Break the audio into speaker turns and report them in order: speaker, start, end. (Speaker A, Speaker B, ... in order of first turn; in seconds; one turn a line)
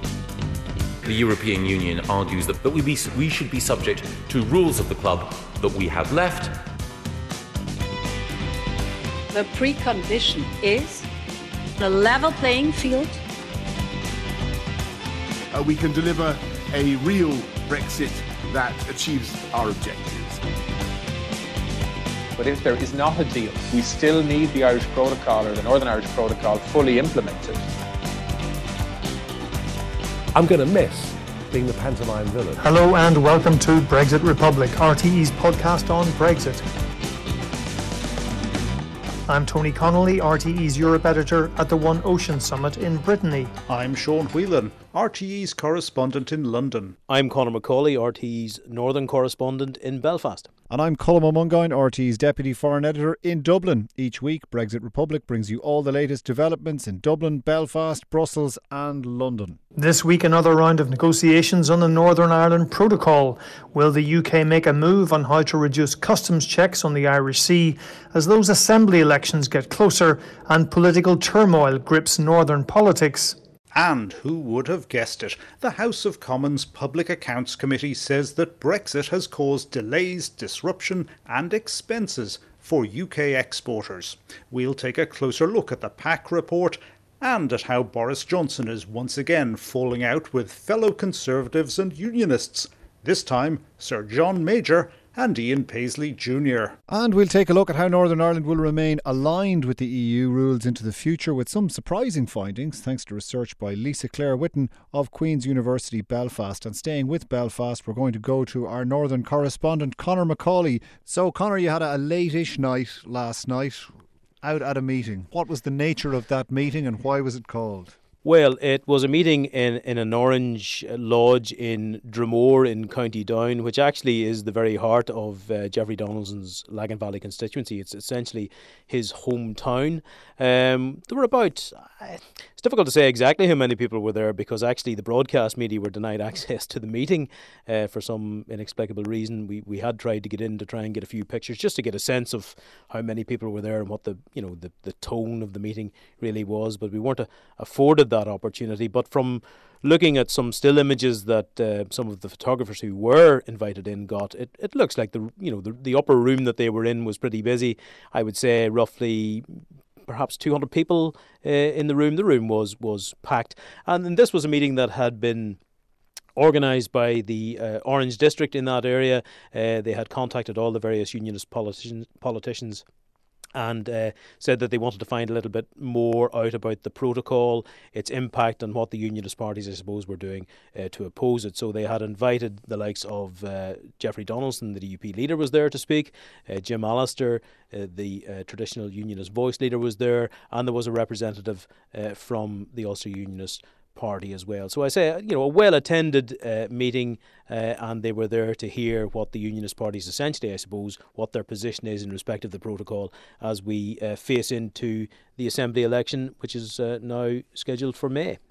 Speaker A: 1.0-6.6
Speaker B: 9.3-11.1
Speaker B: 11.8-13.2
Speaker C: 15.5-20.4
Speaker D: 22.4-27.6
Speaker E: 30.3-32.7
Speaker F: 32.6-36.6
Speaker F: 39.3-43.5
Speaker G: 43.7-47.0
Speaker H: 47.1-50.5
Speaker I: 50.7-59.6
Speaker F: 59.8-73.4
Speaker G: 73.7-96.8
Speaker I: 96.9-118.0
Speaker H: 118.2-165.6
Speaker H: 166.4-172.8
Speaker H: 173.6-208.4